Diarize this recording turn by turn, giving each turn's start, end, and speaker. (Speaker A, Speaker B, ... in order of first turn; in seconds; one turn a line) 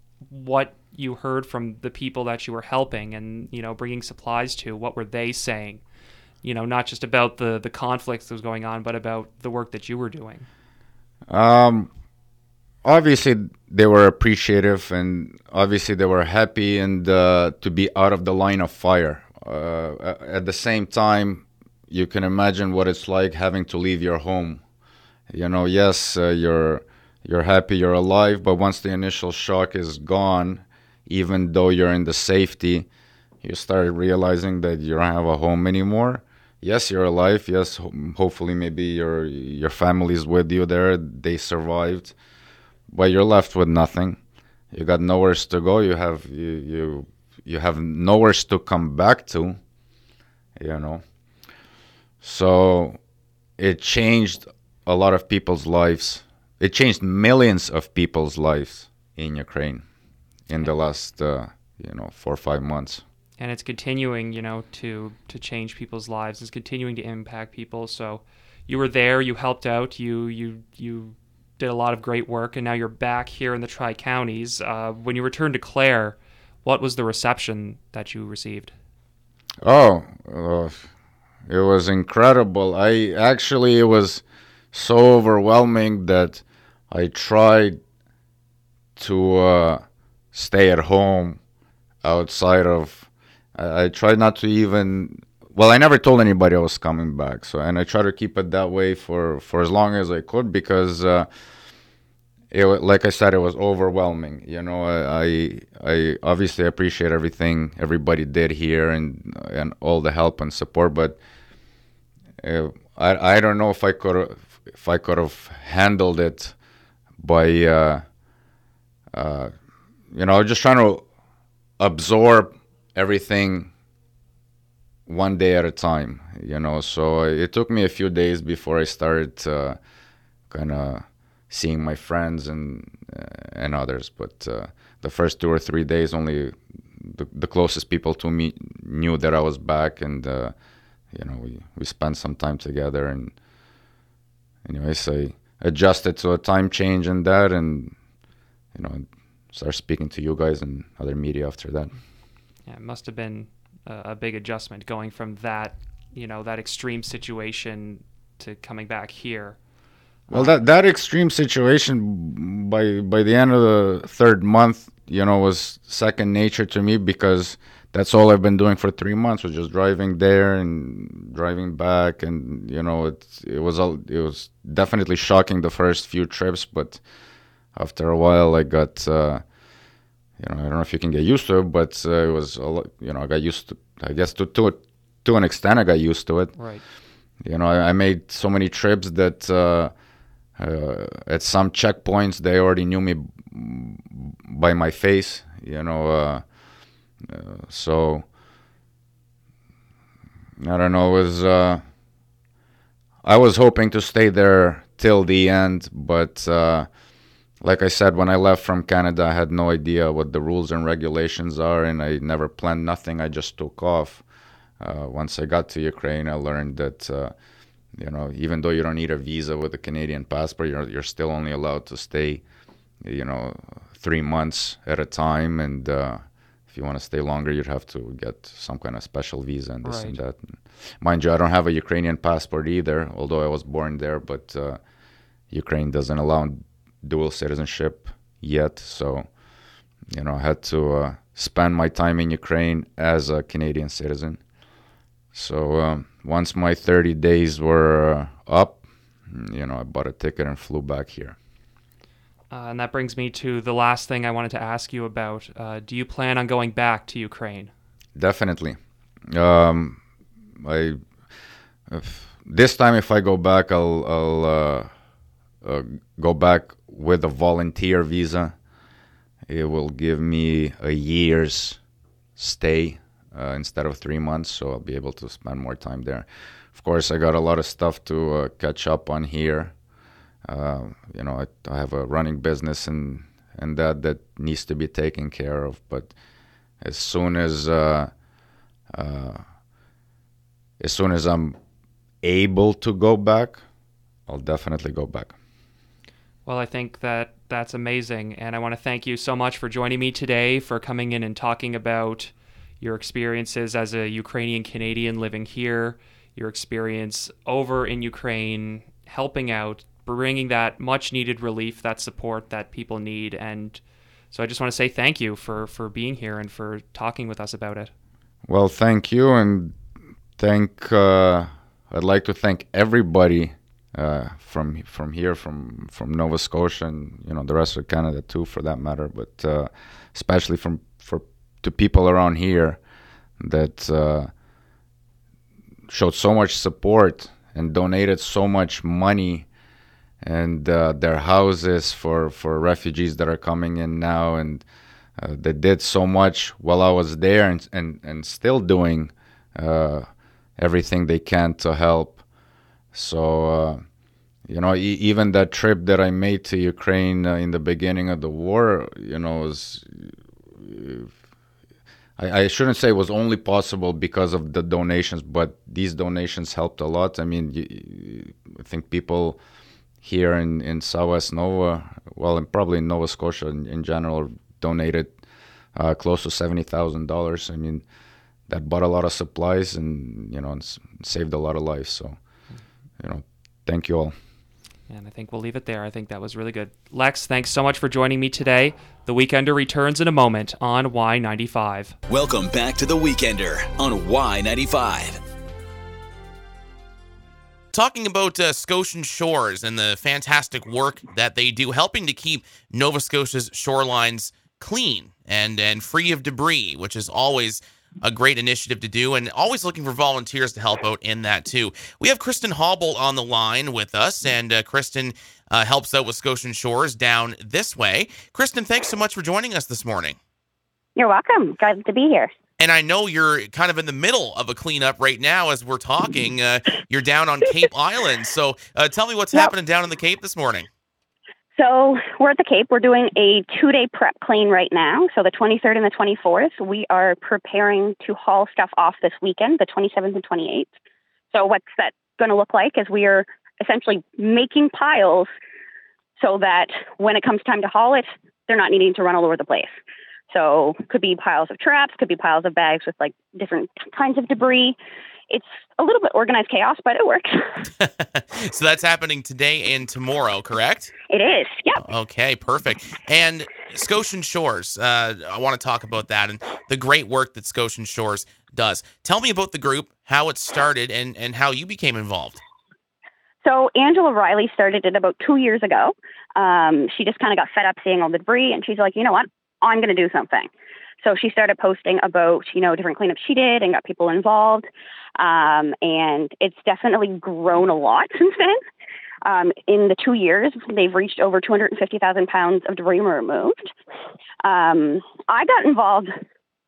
Speaker A: 0.3-5.8
Speaker A: 6.4-10.5
Speaker B: 11.3-11.9
Speaker B: 12.8-24.6
Speaker B: 25.3-32.9
Speaker B: 33.4-42.1
Speaker B: 42.9-44.2
Speaker B: 44.7-49.6
Speaker B: 50.6-51.0
Speaker B: 52.2-53.0
Speaker B: 53.6-59.9
Speaker B: 60.5-63.0
Speaker A: 63.4-78.7
Speaker B: 79.6-80.9
Speaker B: 81.5-87.8
Speaker B: 89.0-91.4
Speaker B: 92.0-101.3
Speaker B: 102.5-111.2
Speaker B: 112.4-116.5
Speaker B: 117.2-118.0
Speaker B: 119.1-119.5
Speaker B: 120.1-121.1
Speaker B: 121.8-123.7
Speaker B: 125.1-129.8
Speaker B: 130.5-140.5
Speaker B: 141.1-143.3
Speaker B: 144.6-147.9
Speaker B: 148.8-151.9
Speaker A: 152.7-159.6
Speaker A: 160.3-160.6
Speaker B: 160.3-177.0
Speaker B: 177.8-179.4
Speaker B: 180.4-186.6
Speaker A: 186.6-186.8
Speaker B: 187.4-189.9
Speaker B: 190.6-196.4
Speaker B: 197.2-198.2
Speaker B: 200.6-201.8
Speaker B: 203.2-206.9
Speaker B: 207.6-214.2
Speaker B: 214.8-217.3
Speaker B: 218.0-222.4
Speaker B: 223.0-234.8
Speaker A: 229.8-230.2
Speaker B: 235.5-239.3
Speaker B: 240.1-244.4
Speaker B: 245.3-251.4
Speaker A: 252.5-257.7
Speaker B: 258.1-258.8
Speaker B: 259.3-260.0
Speaker B: 260.6-261.0
Speaker B: 261.9-264.9
Speaker B: 265.6-268.5
Speaker B: 269.5-271.8
Speaker B: 272.4-279.7
Speaker B: 280.4-286.1
Speaker B: 286.8-288.1
Speaker B: 288.9-289.4
Speaker B: 290.8-291.6
Speaker B: 292.2-293.6
Speaker B: 294.3-295.4
Speaker A: 296.4-313.8
Speaker A: 314.3-317.9
Speaker B: 318.5-319.8
Speaker B: 320.4-332.8
Speaker B: 333.4-334.3
Speaker B: 335.9-339.5
Speaker B: 340.2-344.6
Speaker B: 345.2-352.2
Speaker B: 352.9-353.8
Speaker B: 354.5-361.1
Speaker B: 362.2-369.4
Speaker B: 370.0-375.1
Speaker B: 375.8-377.9
Speaker B: 378.5-382.2
Speaker B: 383.0-384.1
Speaker A: 384.9-391.9
Speaker C: 392.1-395.2
Speaker D: 397.7-420.2
Speaker E: 420.9-422.3
Speaker D: 422.6-430.7
Speaker E: 431.6-440.7
Speaker E: 441.3-445.3
Speaker E: 446.2-449.7
Speaker E: 450.3-454.8
Speaker E: 455.3-457.4
Speaker D: 457.8-460.9
Speaker E: 461.1-461.8
Speaker D: 461.8-472.4
Speaker E: 473.4-480.5
Speaker E: 481.0-488.6
Speaker E: 489.2-493.7
Speaker E: 494.4-496.1